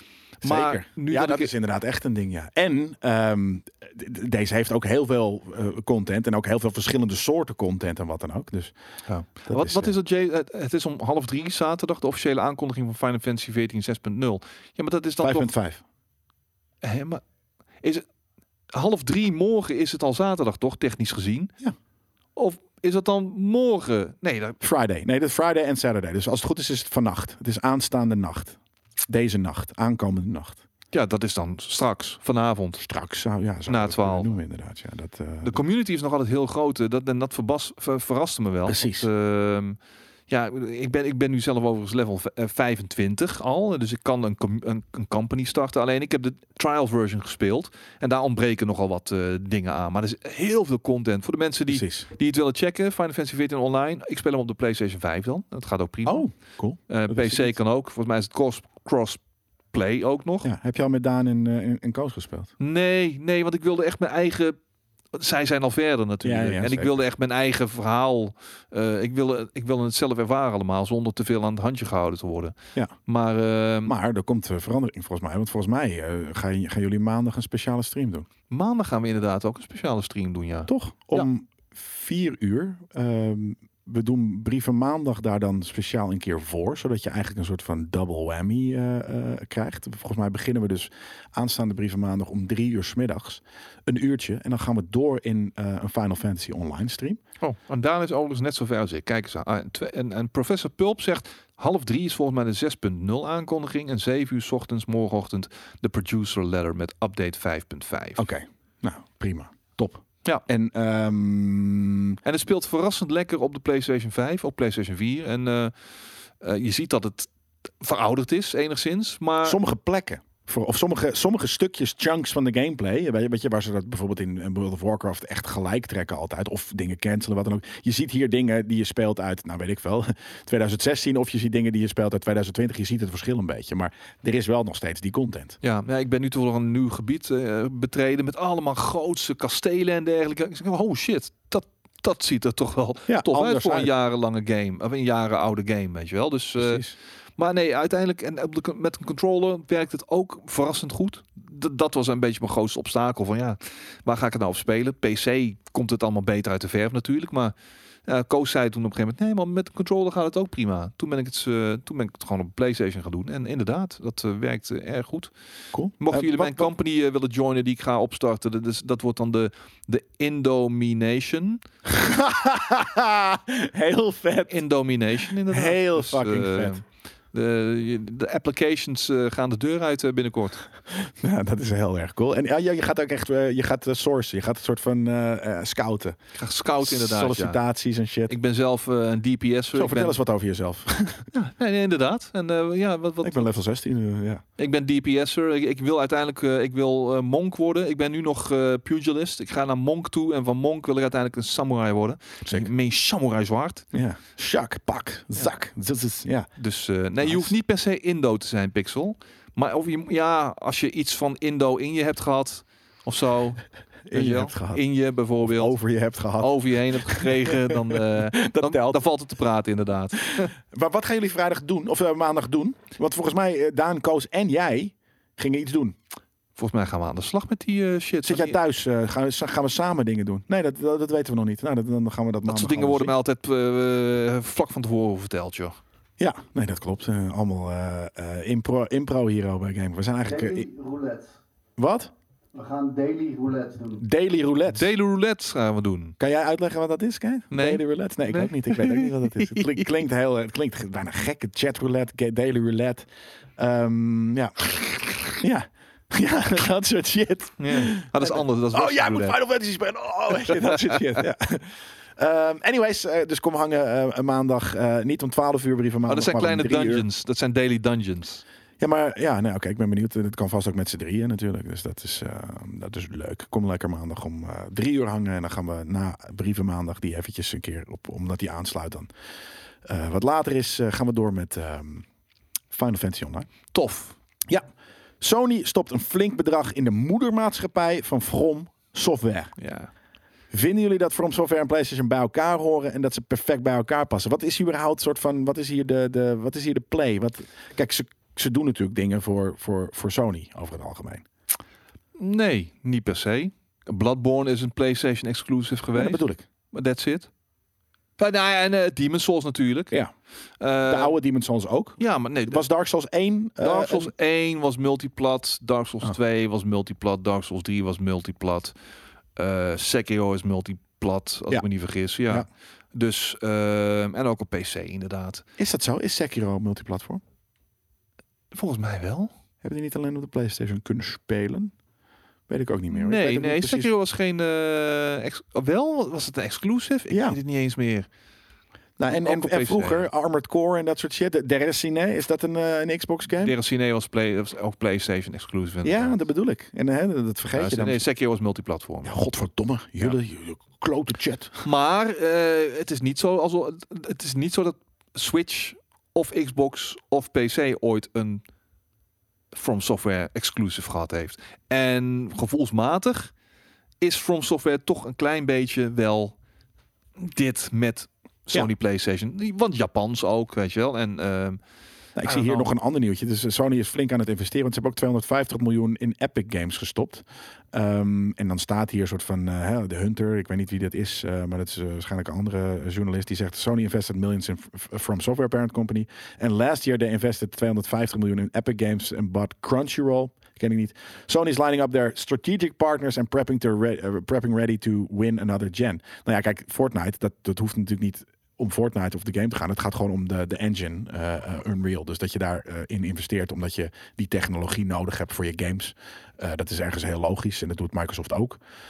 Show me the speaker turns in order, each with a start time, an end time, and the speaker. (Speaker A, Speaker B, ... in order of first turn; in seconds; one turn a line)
Speaker A: 0.4-1.5
Speaker B: 0.4-8.7
Speaker A: 9.1-15.5
Speaker B: 9.4-9.9
Speaker B: 15.2-15.8
Speaker A: 16.8-17.2
Speaker A: 18.7-21.5
Speaker A: 22.4-24.6
Speaker B: 24.6-30.6
Speaker A: 30.9-32.8
Speaker B: 32.8-35.6
Speaker A: 33.7-34.3
Speaker A: 35.4-39.8
Speaker B: 38.6-39.1
Speaker A: 40.3-56.2
Speaker B: 51.7-52.1
Speaker B: 56.0-57.5
Speaker A: 56.9-59.2
Speaker A: 59.7-60.5
Speaker B: 60.4-62.5
Speaker A: 62.6-64.6
Speaker A: 65.1-73.9
Speaker B: 66.2-67.0
Speaker B: 73.8-78.2
Speaker A: 78.5-81.3
Speaker B: 80.7-97.2
Speaker A: 97.4-108.2
Speaker B: 108.2-112.2
Speaker A: 112.2-115.7
Speaker A: 116.4-117.3
Speaker A: 117.8-119.6
Speaker B: 119.4-135.6
Speaker A: 135.6-146.8
Speaker B: 143.1-143.9
Speaker B: 146.6-146.9
Speaker A: 147.4-157.5
Speaker A: 158.1-165.3
Speaker B: 165.7-166.7
Speaker A: 166.0-171.6
Speaker B: 171.9-174.6
Speaker A: 174.5-180.6
Speaker B: 175.5-176.8
Speaker B: 180.9-186.2
Speaker A: 186.3-187.6
Speaker B: 186.8-188.3
Speaker A: 188.3-190.2
Speaker B: 189.7-191.3
Speaker A: 191.3-193.5
Speaker B: 193.2-194.4
Speaker A: 194.6-203.9
Speaker B: 202.4-202.7
Speaker B: 203.9-206.5
Speaker A: 206.6-215.7
Speaker B: 207.2-207.5
Speaker B: 214.1-214.8
Speaker B: 215.4-219.0
Speaker A: 216.4-220.5
Speaker B: 220.3-225.9
Speaker A: 226.6-228.6
Speaker B: 228.2-233.1
Speaker A: 232.4-235.8
Speaker B: 236.2-240.7
Speaker C: 240.3-241.4
Speaker B: 241.8-242.1
Speaker C: 242.5-244.0
Speaker B: 244.0-244.9
Speaker A: 244.7-246.2
Speaker B: 246.2-267.1
Speaker A: 247.5-249.8
Speaker A: 257.6-259.4
Speaker A: 260.3-261.2
Speaker A: 266.1-268.4
Speaker B: 268.8-279.1
Speaker B: 279.8-282.1
Speaker B: 282.7-283.5
Speaker A: 283.7-284.1
Speaker B: 285.2-289.5
Speaker A: 289.6-289.9
Speaker B: 290.5-301.2
Speaker A: 302.1-306.2
Speaker B: 305.9-306.4
Speaker A: 306.7-307.3
Speaker A: 308.2-309.9
Speaker A: 310.6-311.1
Speaker B: 310.8-314.1
Speaker A: 312.0-312.6
Speaker A: 313.6-318.7
Speaker A: 319.4-325.4
Speaker B: 325.6-327.2
Speaker A: 328.5-329.3
Speaker B: 329.6-331.7
Speaker B: 332.5-333.9
Speaker A: 332.9-338.1
Speaker B: 337.1-337.4
Speaker B: 339.0-343.5
Speaker A: 339.1-340.1
Speaker A: 343.3-346.2
Speaker B: 345.8-348.0
Speaker A: 347.5-349.2
Speaker B: 349.0-351.6
Speaker A: 351.6-358.4
Speaker A: 359.5-363.3
Speaker A: 364.0-366.4
Speaker A: 367.2-371.6
Speaker B: 372.1-408.6
Speaker A: 372.2-372.7